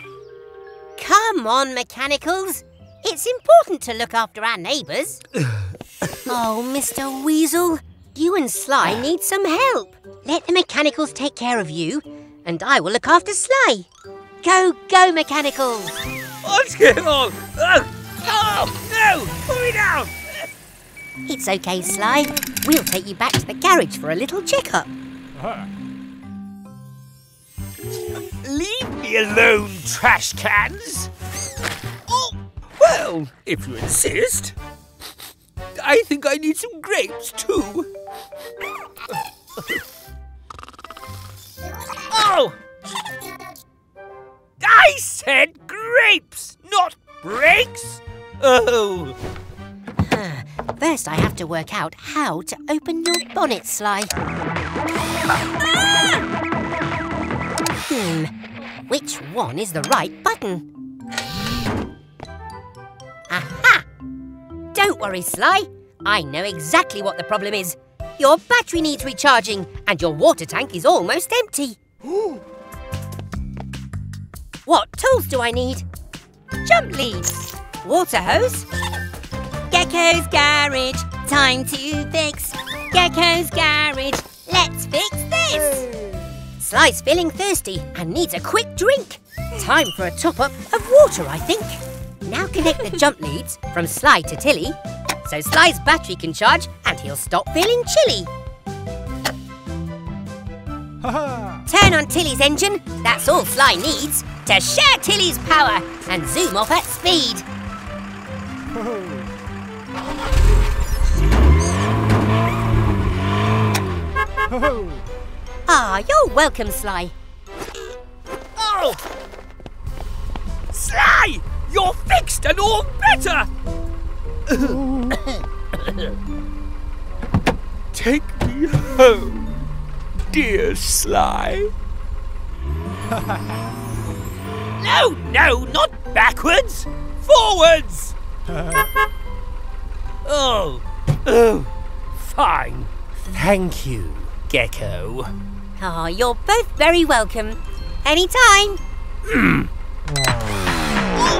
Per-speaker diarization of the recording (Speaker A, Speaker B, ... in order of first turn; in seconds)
Speaker A: 1.0-5.2, 6.2-13.9, 14.4-16.0, 21.2-24.9, 50.0-54.1, 57.9-58.3, 58.9-60.7, 63.3-63.9, 64.7-71.8, 74.7-75.8, 76.6-78.7, 79.7-98.3, 101.7-107.5, 115.7-117.1, 145.8-148.8
Speaker B: 16.4-20.4, 28.1-31.1, 32.1-34.5, 35.7-37.9, 42.0-42.6, 44.6-49.2, 118.5-119.0, 120.7-123.5, 124.5-126.1, 127.9-129.5, 130.3-131.7, 134.8-138.2, 140.2-145.3, 149.2-149.7